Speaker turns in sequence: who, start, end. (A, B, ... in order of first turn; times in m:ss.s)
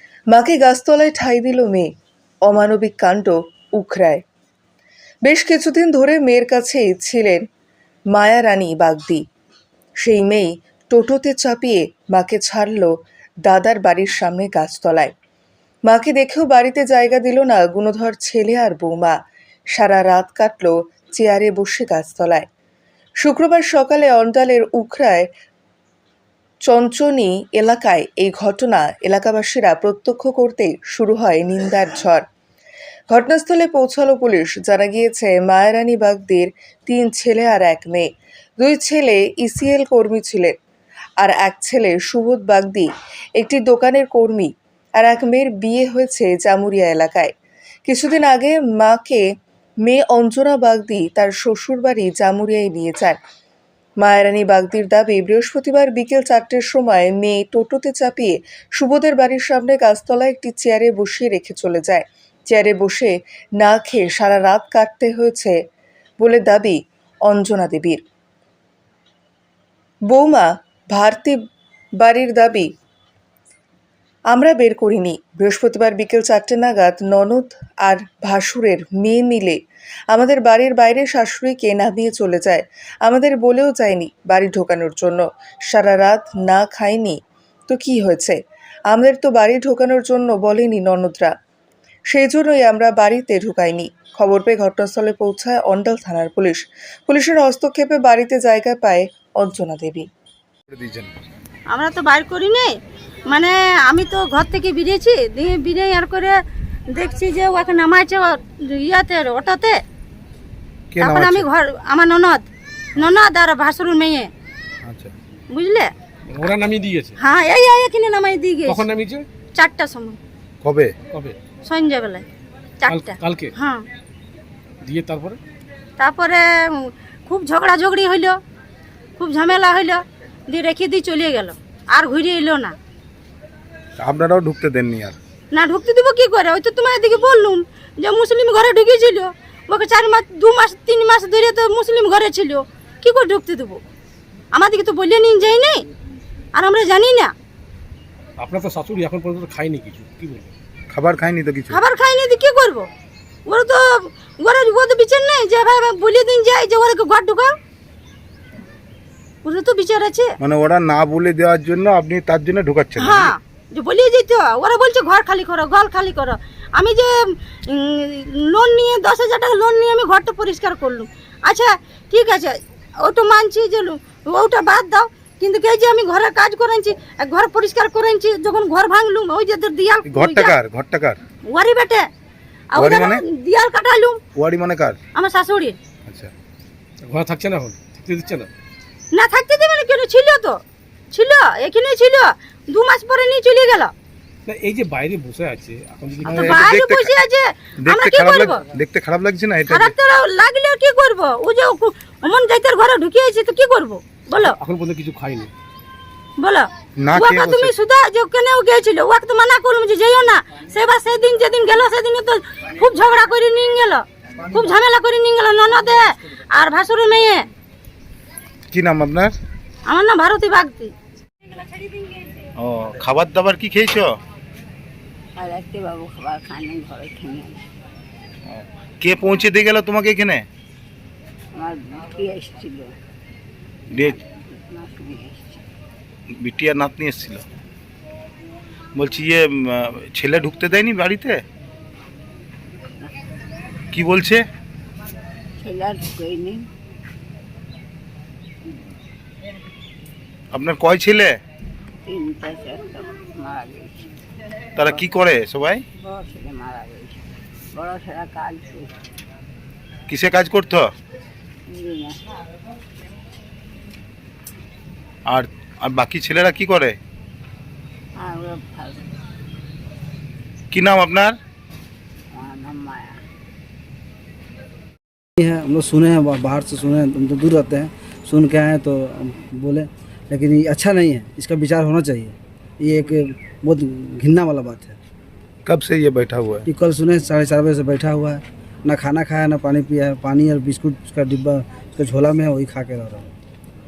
0:00.3-0:01.9 A
0:02.5-0:04.2 A
0:05.2-0:07.4 A
0:08.1-0:09.2 A
0:10.0-0:12.9 A
0:13.4-0:15.1 A
0:15.9-0:19.2 A
0:19.7-0:22.5 A
0:23.2-0:25.3 A
0:26.6-0:32.2 A
0:33.1-0:40.6 A
0:41.2-0:47.3 A
0:47.9-0:49.2 A
0:49.8-0:53.2 A
0:54.0-1:05.6 A
1:06.2-1:08.0 A
1:10.1-1:11.4 A
1:12.0-1:12.7 A
1:14.3-1:19.6 A
1:20.1-1:28.4 A
1:28.9-1:31.3 A
1:32.1-1:40.1 A
1:40.7-1:41.1 B
1:41.7-1:42.7 C
1:43.3-1:46.4 C
1:46.9-1:49.8 C
1:50.9-1:51.5 B
1:51.0-1:54.3 C
1:54.8-1:55.1 B
1:55.5-1:55.9 C
1:56.3-1:57.2 D
1:57.2-1:58.8 C
1:58.7-1:59.3 D
1:59.6-2:00.2 C
2:00.6-2:01.0 B
2:01.1-2:01.4 D
2:01.6-2:02.2 C
2:02.8-2:03.8 C
2:02.9-2:03.5 D
2:04.8-2:05.4 D
2:06.0-2:08.4 C
2:09.2-2:12.8 C
2:14.0-2:15.2 B
2:15.5-2:23.8 C
2:24.5-2:25.8 C
2:26.6-2:27.3 C
2:28.4-2:30.5 D
2:30.9-2:31.8 B
2:31.7-2:32.9 C
2:33.5-2:37.6 C
2:39.4-2:40.3 C
2:40.4-2:43.3 B
2:43.0-2:47.1 C
2:47.7-3:00.6 C
3:00.1-3:01.2 B
3:01.5-3:02.1 C
3:02.7-3:04.2 C
3:02.8-3:03.2 B
3:04.4-3:05.0 B
3:05.2-3:05.8 C
3:06.1-3:06.3 B
3:07.0-3:08.5 D
3:09.1-3:10.6 C
3:11.1-3:13.9 C
3:14.5-3:16.7 D
3:16.2-3:17.2 B
3:16.3-3:18.6 C
3:17.8-3:19.9 B
3:19.7-3:24.6 C
3:24.4-3:25.5 D
3:26.4-3:37.4 C
3:27.0-3:27.7 B
3:38.7-3:39.3 B
3:39.9-3:40.9 C
3:42.6-3:44.1 B
3:45.4-3:47.6 E
3:48.5-3:50.5 B
3:51.6-3:53.0 E
3:53.9-3:54.2 B
3:54.0-3:55.6 E
3:56.4-3:57.4 B
3:59.0-4:01.4 B
4:03.9-4:04.4 B
4:05.6-4:06.7 E
4:10.5-4:11.4 B
4:12.1-4:14.1 E
4:14.8-4:15.8 B
4:16.0-4:18.9 E
4:20.1-4:20.9 B
4:21.7-4:22.4 E
4:25.3-4:27.0 B
4:28.2-4:29.1 E
4:30.7-4:31.4 B
4:32.3-4:33.2 E
4:35.4-4:45.0 F
4:45.6-4:46.7 B
4:46.7-4:53.3 F